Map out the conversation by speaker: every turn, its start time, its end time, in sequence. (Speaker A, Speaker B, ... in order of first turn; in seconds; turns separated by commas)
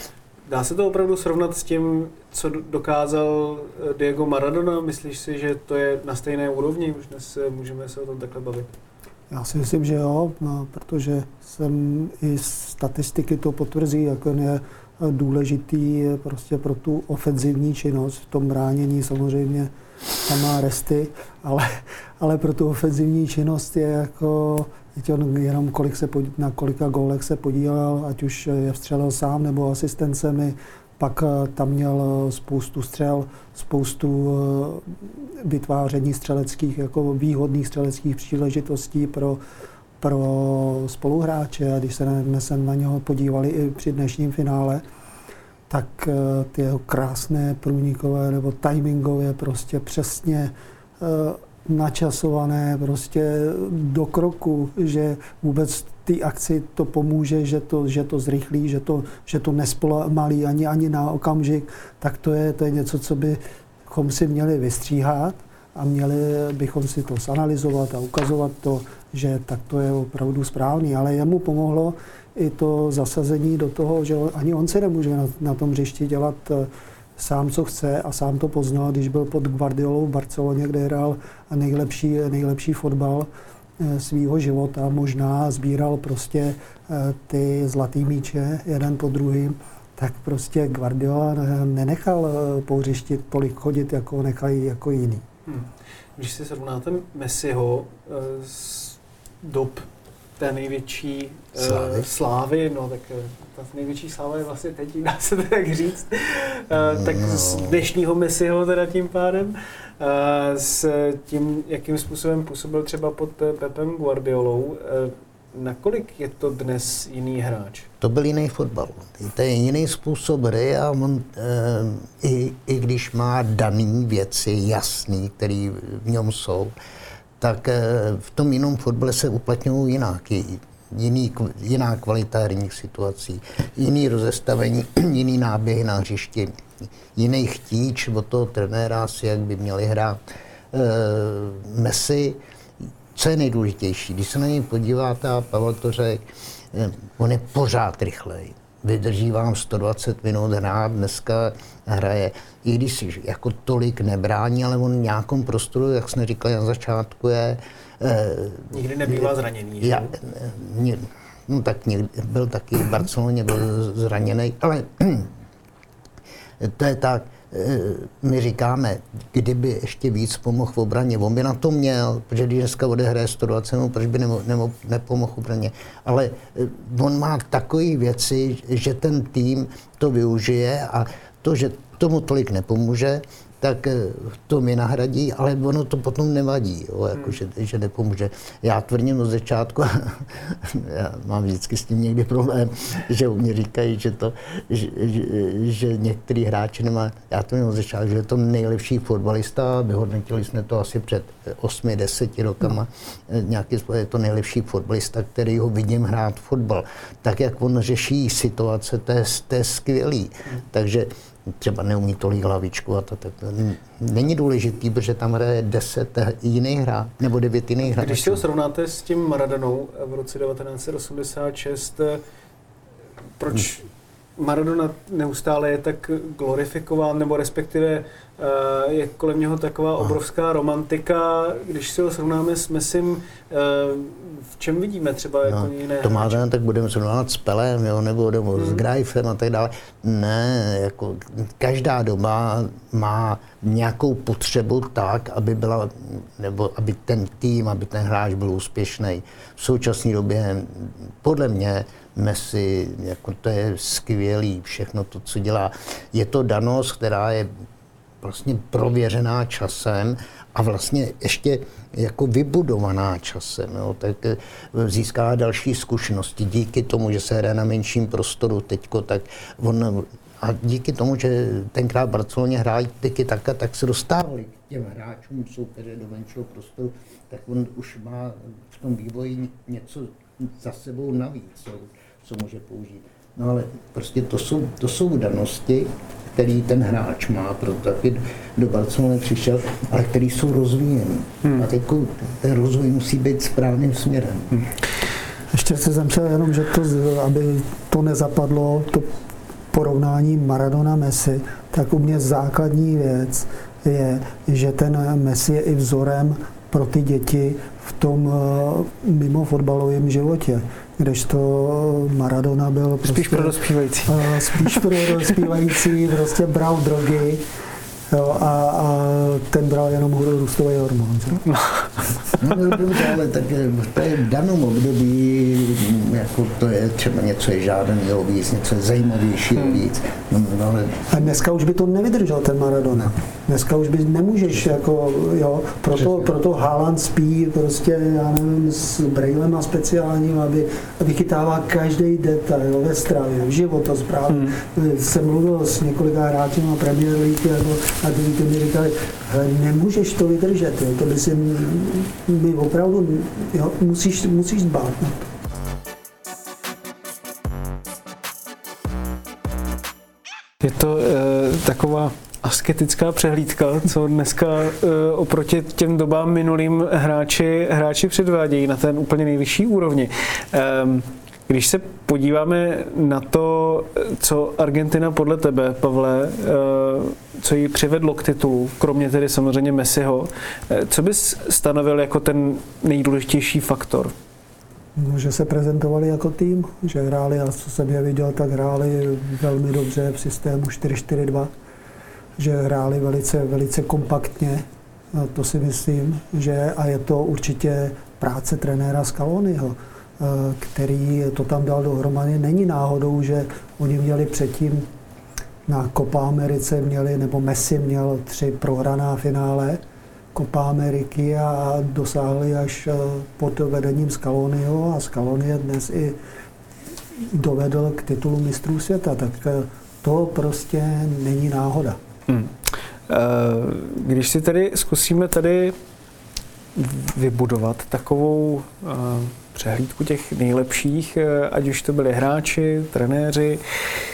Speaker A: 0.5-8.7, Speaker B: 9.3-19.7, Speaker B: 20.3-34.8, Speaker B: 35.4-39.4, Speaker B: 40.0-44.8, Speaker B: 45.7-83.3, Speaker B: 83.8-95.2, Speaker A: 95.5-99.9, Speaker A: 100.4-117.9, Speaker C: 101.5-102.1, Speaker C: 106.7-107.8, Speaker C: 118.0-126.7, Speaker C: 127.4-136.5, Speaker C: 137.1-142.4, Speaker C: 143.1-165.3, Speaker A: 158.7-160.2, Speaker C: 166.6-218.4, Speaker A: 217.8-222.2, Speaker A: 223.4-236.4, Speaker C: 235.4-257.5, Speaker A: 238.6-238.8, Speaker C: 258.2-294.5, Speaker B: 295.5-299.1, Speaker B: 299.7-313.5, Speaker A: 313.1-315.3, Speaker B: 314.1-317.4, Speaker B: 318.1-321.4, Speaker A: 321.5-322.4, Speaker C: 322.4-331.0, Speaker B: 331.1-355.2, Speaker A: 344.3-344.5, Speaker A: 360.6-384.1, Speaker B: 384.9-391.5, Speaker B: 392.4-404.9, Speaker B: 405.7-409.8, Speaker B: 410.3-416.2, Speaker B: 417.3-422.0, Speaker A: 422.3-422.5, Speaker A: 423.1-425.8, Speaker A: 426.7-433.6